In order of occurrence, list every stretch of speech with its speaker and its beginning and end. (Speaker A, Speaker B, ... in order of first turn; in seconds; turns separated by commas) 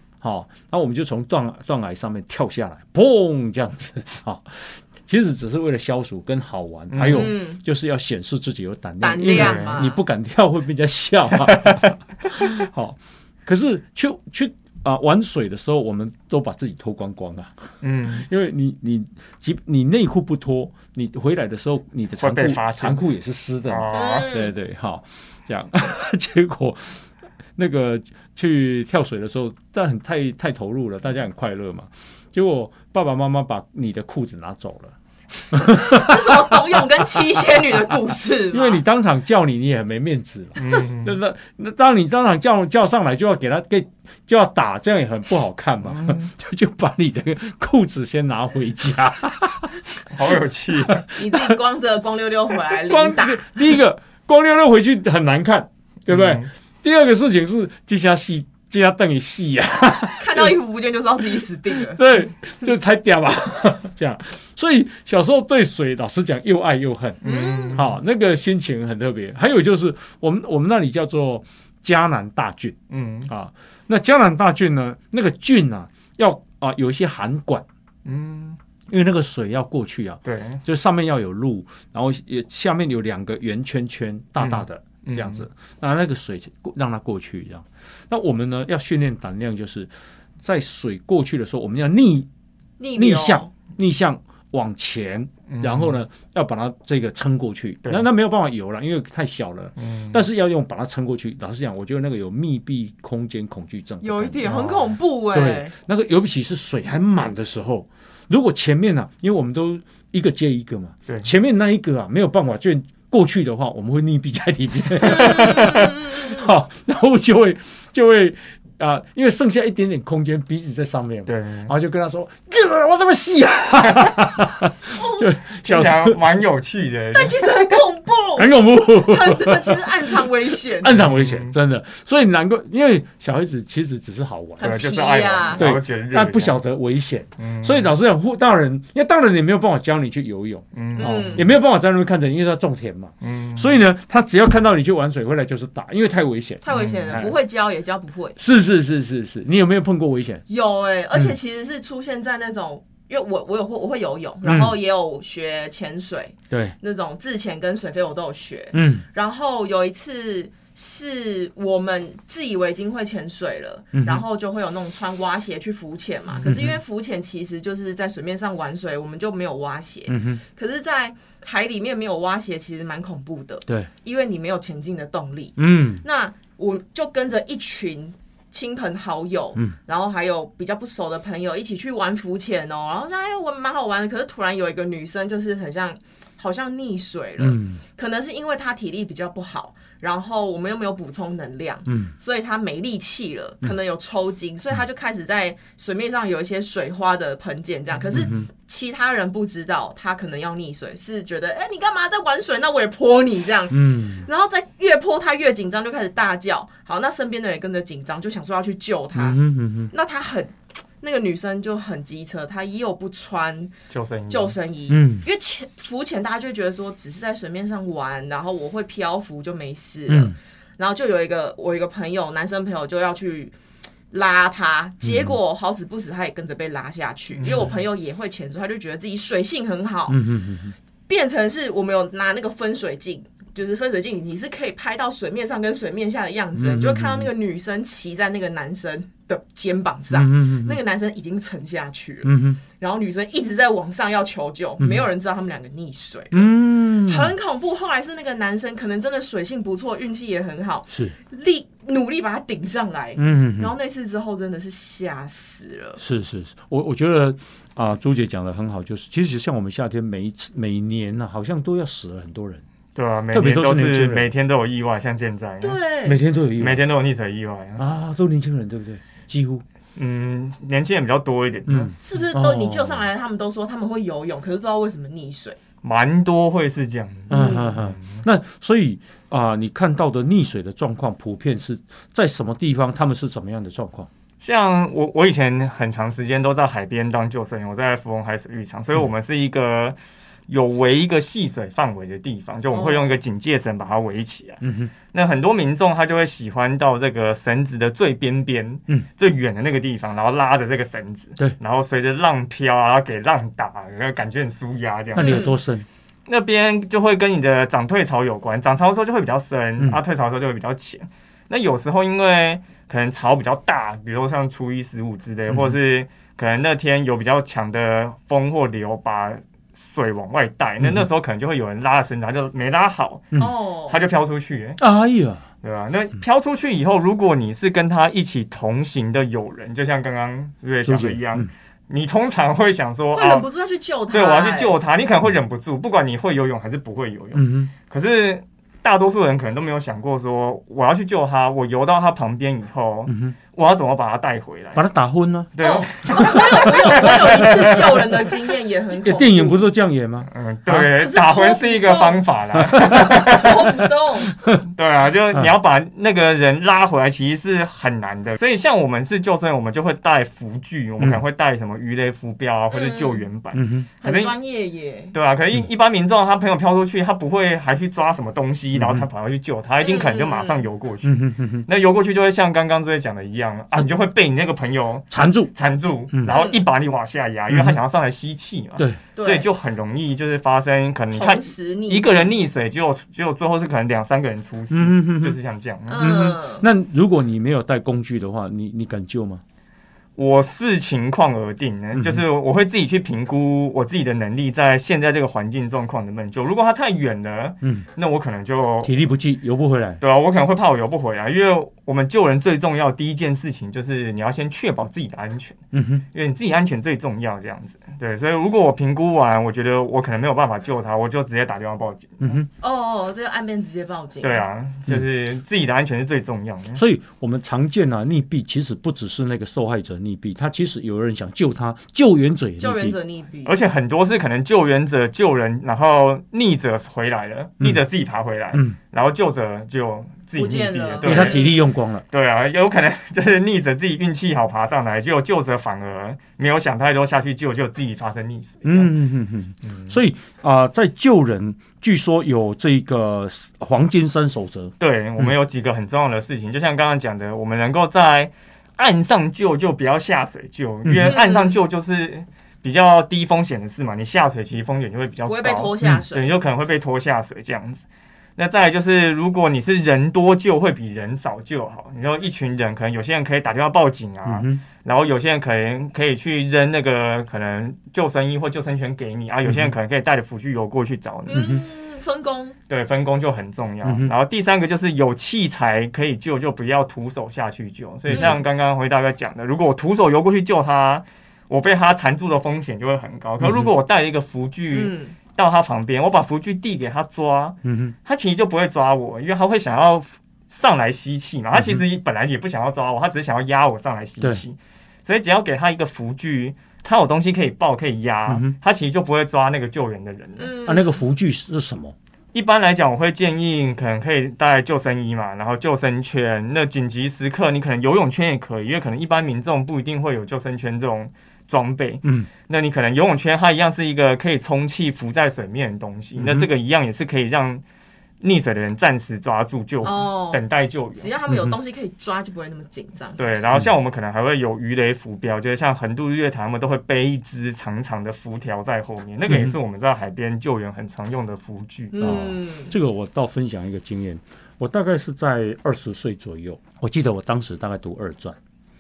Speaker A: 0.2-27.0, Speaker B: 6.9-7.3, Speaker C: 7.1-7.6, Speaker C: 9.0-10.0, Speaker B: 9.3-9.8, Speaker B: 11.5-11.9, Speaker B: 17.8-18.3, Speaker B: 22.2-23.0, Speaker B: 23.6-24.3, Speaker C: 23.9-24.5, Speaker A: 27.6-35.0, Speaker A: 35.5-37.4, Speaker C: 35.6-38.8, Speaker A: 38.5-49.8, Speaker B: 40.6-41.2, Speaker B: 45.8-46.3, Speaker B: 50.1-51.1, Speaker A: 51.0-51.5, Speaker C: 51.1-53.7, Speaker A: 52.8-60.5, Speaker B: 56.1-56.5, Speaker C: 60.2-62.0, Speaker A: 61.8-67.2, Speaker B: 67.2-68.0, Speaker C: 67.2-67.8, Speaker A: 67.7-77.6, Speaker B: 72.9-73.3, Speaker B: 78.0-78.6, Speaker A: 78.9-89.9, Speaker B: 80.2-80.6, Speaker B: 84.4-85.5, Speaker A: 90.4-92.3, Speaker C: 92.8-93.5, Speaker A: 92.9-104.5, Speaker B: 95.5-96.0, Speaker B: 99.8-100.2, Speaker C: 104.0-105.7, Speaker B: 104.4-105.0, Speaker A: 105.3-126.2, Speaker C: 115.0-116.3, Speaker B: 115.2-115.9, Speaker B: 121.3-121.7, Speaker B: 123.9-124.1, Speaker B: 125.5-127.5, Speaker C: 127.1-131.0, Speaker A: 128.4-130.1, Speaker A: 130.8-134.8, Speaker B: 131.0-131.5, Speaker C: 134.6-135.6, Speaker B: 134.6-136.6, Speaker A: 135.6-147.4, Speaker B: 137.4-137.9, Speaker B: 140.7-141.4, Speaker C: 141.0-141.4, Speaker B: 143.2-143.8, Speaker C: 146.6-148.4, Speaker B: 146.7-147.2, Speaker A: 148.4-150.4, Speaker C: 150.5-209.4, Speaker A: 154.4-154.8, Speaker A: 158.7-159.1, Speaker A: 163.9-164.2, Speaker A: 166.4-166.8, Speaker A: 170.1-170.4, Speaker A: 175.6-176.0, Speaker A: 187.4-187.8, Speaker A: 191.9-192.1, Speaker A: 198.1-198.5, Speaker A: 203.7-204.3, Speaker A: 209.1-209.9, Speaker C: 209.9-213.7, Speaker B: 213.9-214.6, Speaker C: 214.3-223.5, Speaker A: 214.9-215.2, Speaker A: 220.1-220.3, Speaker C: 224.1-230.2, Speaker A: 225.0-225.3, Speaker B: 227.4-227.7, Speaker A: 230.1-230.7, Speaker C: 231.1-256.0, Speaker A: 236.5-237.3, Speaker A: 240.1-240.8, Speaker A: 242.2-242.6, Speaker A: 244.8-245.1, Speaker A: 246.3-247.3, Speaker A: 250.9-251.1, Speaker A: 253.2-253.7, Speaker A: 256.0-262.6, Speaker B: 262.9-265.8, Speaker A: 263.3-264.3, Speaker C: 265.6-266.2, Speaker A: 266.0-266.8, Speaker B: 266.6-267.8, Speaker A: 267.8-269.6, Speaker B: 269.9-271.9, Speaker A: 271.7-273.0, Speaker C: 272.0-275.6, Speaker B: 275.8-278.2, Speaker A: 277.3-284.1, Speaker C: 277.3-277.7, Speaker B: 284.4-290.0, Speaker B: 290.5-294.6, Speaker C: 292.7-293.1, Speaker A: 294.6-294.9, Speaker B: 295.1-305.4, Speaker A: 305.1-305.9, Speaker C: 305.2-305.5, Speaker B: 306.3-324.8, Speaker A: 315.5-315.8, Speaker C: 323.4-324.0, Speaker A: 324.8-325.4, Speaker B: 325.6-333.4, Speaker A: 330.8-331.5, Speaker C: 333.1-334.8, Speaker B: 334.1-344.8, Speaker A: 337.3-337.7, Speaker A: 343.1-343.4, Speaker A: 344.8-345.5, Speaker B: 345.5-348.2, Speaker C: 345.6-349.6, Speaker A: 349.0-350.8, Speaker B: 350.3-353.7, Speaker C: 350.8-352.2, Speaker A: 352.6-353.2, Speaker C: 352.8-354.3, Speaker B: 354.6-364.3, Speaker C: 362.7-363.2, Speaker A: 363.5-363.9, Speaker C: 364.0-365.1, Speaker B: 365.1-386.1, Speaker A: 368.8-369.1, Speaker C: 369.8-370.6, Speaker A: 371.0-371.6, Speaker A: 375.1-375.5, Speaker C: 376.2-376.6, Speaker A: 377.5-377.8, Speaker C: 379.1-379.5, Speaker C: 381.1-382.3, Speaker A: 384.7-385.4, Speaker C: 385.9-386.6, Speaker A: 386.0-389.4, Speaker B: 390.2-398.9, Speaker A: 391.9-392.2, Speaker A: 398.8-400.0, Speaker B: 400.0-405.6, Speaker A: 405.7-406.0, Speaker B: 406.1-412.4, Speaker A: 412.2-412.5, Speaker C: 412.6-414.4, Speaker B: 414.2-416.8, Speaker A: 416.8-423.0, Speaker C: 422.6-423.6, Speaker B: 423.4-431.6, Speaker C: 430.4-431.6, Speaker A: 431.0-432.0, Speaker B: 432.1-438.9, Speaker A: 438.6-445.3, Speaker B: 439.6-440.0, Speaker B: 444.8-457.8, Speaker A: 450.8-451.1, Speaker C: 451.0-451.6, Speaker C: 455.2-456.3, Speaker B: 458.4-471.4, Speaker A: 464.2-464.6, Speaker A: 469.4-469.7, Speaker C: 471.3-472.6, Speaker A: 471.3-471.6, Speaker B: 472.7-500.5, Speaker A: 473.8-474.1, Speaker A: 478.1-478.4, Speaker A: 483.4-483.7, Speaker C: 484.7-485.1, Speaker A: 487.6-487.9, Speaker A: 498.3-498.5, Speaker C: 500.4-501.0, Speaker A: 500.6-501.9, Speaker B: 502.3-517.6, Speaker A: 516.2-516.5, Speaker B: 518.2-521.1, Speaker C: 519.8-520.4, Speaker C: 521.0-523.6, Speaker A: 521.3-521.5, Speaker B: 523.2-532.0, Speaker A: 529.3-529.5, Speaker C: 531.9-532.7, Speaker A: 532.0-538.4